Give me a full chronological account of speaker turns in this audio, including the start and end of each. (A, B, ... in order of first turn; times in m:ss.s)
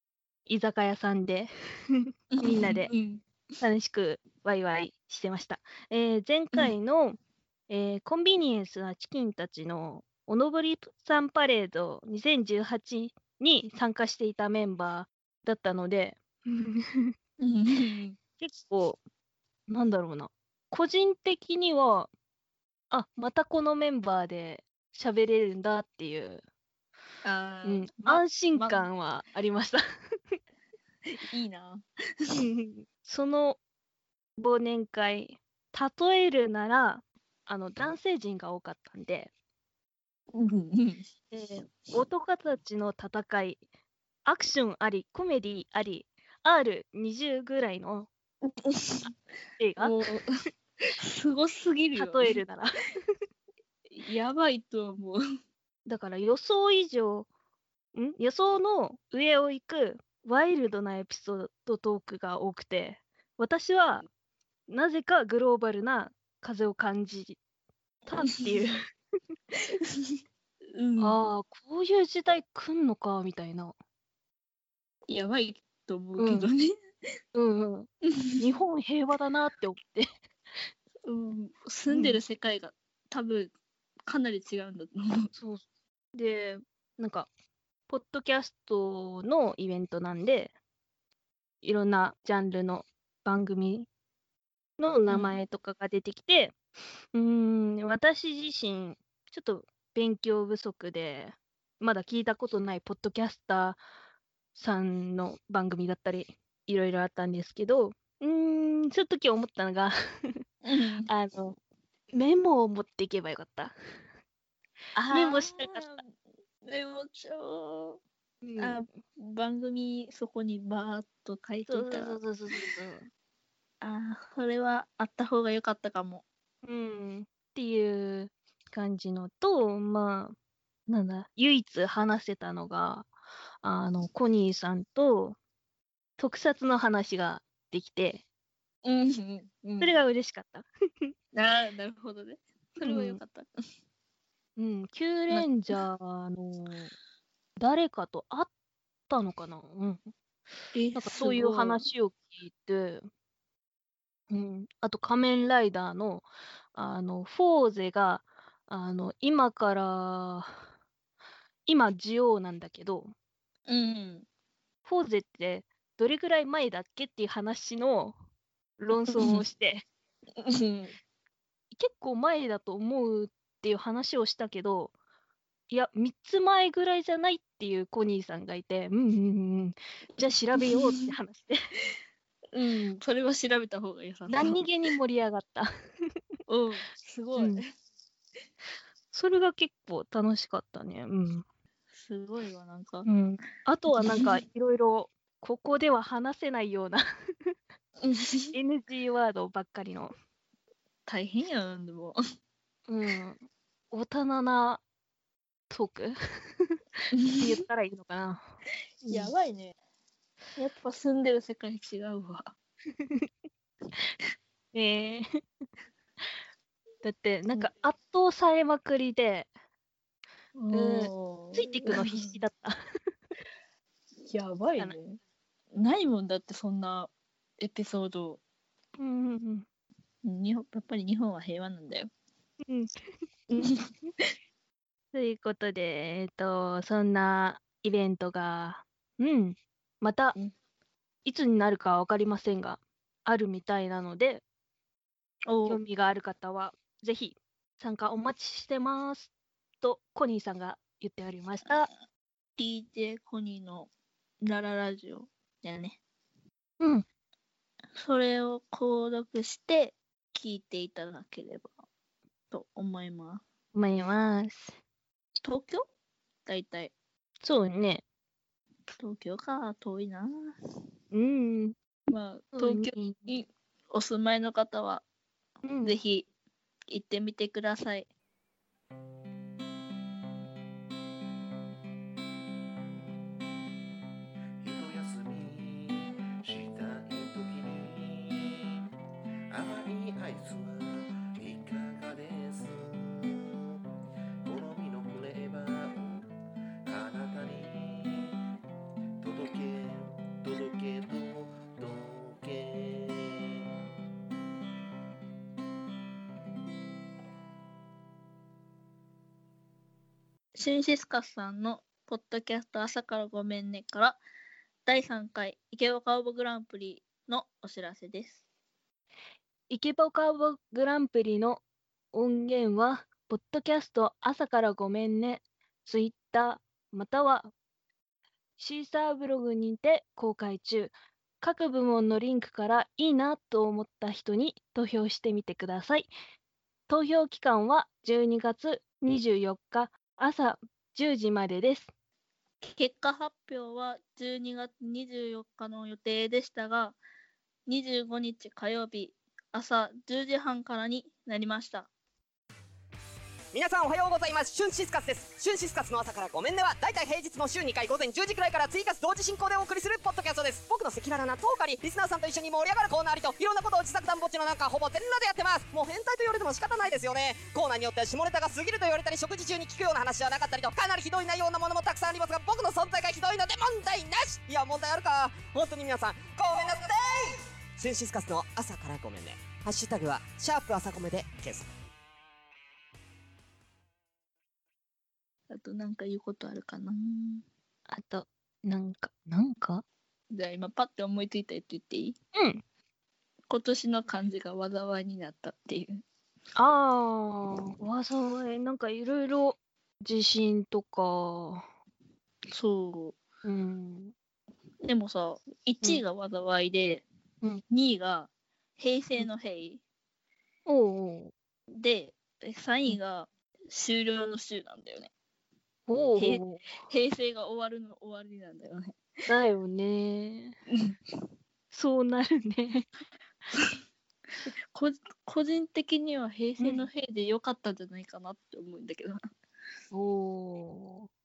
0:00.5-0:02.9 A
0:02.3-0:03.2 B
0:03.6-0:07.2 A
0:07.7-0:17.1 A
0:17.4-0:18.2 B
0:18.4-0:19.0 A
0:19.7-0:22.1 A
0:22.9-0:26.4 A
0:27.2-0:28.9 B
0:27.6-0:29.8 A
0:31.3-0:32.4 B
0:32.3-0:33.6 A
0:34.4-0:39.3 A
0:40.3-0:41.1 B
0:41.3-0:43.6 A
0:44.2-0:48.1 A
0:48.5-0:49.1 B
0:49.6-0:50.0 A
0:49.8-0:50.3 B
0:51.0-0:52.4 B
0:52.0-0:52.8 A
0:53.9-0:55.2 B
0:55.9-0:57.3 A
0:57.9-1:04.0 A
1:04.7-1:07.4 A
1:08.1-1:08.8 A
1:08.3-1:08.6 B
1:10.7-1:11.2 B
1:11.0-1:13.7 A
1:15.1-1:16.7 B
1:16.2-1:16.5 A
1:17.3-1:20.1 A
1:18.0-1:18.4 B
1:21.0-1:23.5 B
1:21.9-1:22.2 A
1:24.1-1:25.3 B
1:25.3-1:25.6 A
1:26.2-1:27.3 A
1:27.9-1:30.5 A
1:31.6-1:33.9 A
1:34.8-1:36.6 A
1:35.1-1:35.4 B
1:37.1-1:43.8 A
1:44.6-1:50.4 A
1:50.6-1:51.1 B
1:51.1-1:51.6 A
1:52.1-1:53.7 A
1:55.0-1:56.0 A
1:55.1-1:56.1 B
1:56.6-1:58.0 B
1:58.4-1:58.8 A
1:58.6-2:02.2 B
2:01.7-2:03.1 A
2:03.8-2:06.2 B
2:06.6-2:10.4 A
2:10.9-2:13.1 A
2:13.6-2:15.4 A
2:16.2-2:18.2 A
2:18.8-2:20.0 B
2:19.8-2:21.1 A
2:21.3-2:23.5 B
2:22.8-2:23.2 A
2:24.6-2:26.9 A
2:25.3-2:25.8 B
2:27.6-2:28.5 A
2:29.1-2:30.1 A
2:30.7-2:31.8 B
2:31.0-2:33.0 A
2:34.3-2:40.6 A
2:41.7-2:43.1 A
2:43.7-2:44.3 B
2:44.8-2:48.2 A
2:48.8-2:49.8 A
2:49.1-2:49.4 B
2:50.4-2:51.0 B
2:51.7-2:54.9 A
2:55.7-3:01.6 A
3:00.6-3:01.2 B
3:02.5-3:04.6 B
3:04.3-3:05.7 A
3:06.5-3:07.6 B
3:07.4-3:07.6 A
3:09.1-3:11.4 A
3:11.9-3:13.1 B
3:13.1-3:17.5 A
3:14.0-3:14.4 B
3:18.0-3:18.6 B
3:18.5-3:20.1 A
3:21.1-3:22.2 B
3:22.9-3:24.8 A
3:25.7-3:26.8 A
3:27.1-3:27.6 B
3:27.3-3:28.4 A
3:29.0-3:29.8 B
3:30.6-3:32.5 B
3:34.7-3:35.2 A
3:37.0-3:39.5 A
3:40.6-3:42.4 B
3:40.7-3:42.8 A
3:44.2-3:45.2 B
3:45.7-3:48.4 B
3:49.0-3:49.6 A
3:50.2-3:52.1 B
3:53.5-3:53.8 B
3:55.1-4:00.4 A
4:01.2-4:04.4 A
4:05.5-4:05.8 B
4:05.7-4:09.3 A
4:09.8-4:11.9 A
4:12.6-4:13.9 B
4:14.4-4:16.0 B
4:16.8-4:17.0 A
4:18.0-4:21.7 B
4:22.5-4:23.4 B
4:23.7-4:24.8 A
4:25.4-4:25.8 B
4:26.5-4:26.9 B
4:27.4-4:28.0 A
4:29.0-4:30.5 B
4:31.1-4:31.7 A
4:32.1-4:35.0 B
4:32.5-4:33.4 A
4:35.6-4:35.9 A
4:35.8-4:36.3 B
4:36.9-4:38.1 B
4:44.6-4:48.8 C
4:49.5-4:53.7 C
4:54.4-4:56.3 C
4:56.9-4:58.4 C
4:59.2-5:03.6 C
5:10.6-5:14.2 B
5:14.9-5:18.4 B
5:19.7-5:21.6 A
5:22.1-5:27.5 A
5:28.6-5:36.1 A
5:36.9-5:41.9 A
5:42.6-5:47.0 B
5:47.7-5:51.9 B
5:53.5-6:21.7 D
6:25.5-6:27.4 B
6:27.9-6:29.8 A
6:30.3-6:32.2 B
6:32.4-6:32.6 A
6:33.5-6:36.0 B
6:36.6-6:41.6 A
6:42.5-6:43.2 B
6:43.4-6:44.1 A
6:44.8-6:47.0 B
6:47.7-6:49.8 B
6:50.7-6:51.3 A
6:51.8-6:55.1 B
6:55.9-6:56.8 A
6:56.2-6:59.0 B
6:59.3-7:00.6 A
7:01.7-7:02.9 A
7:04.7-7:09.2 B
7:06.6-7:06.8 A
7:09.9-7:11.1 A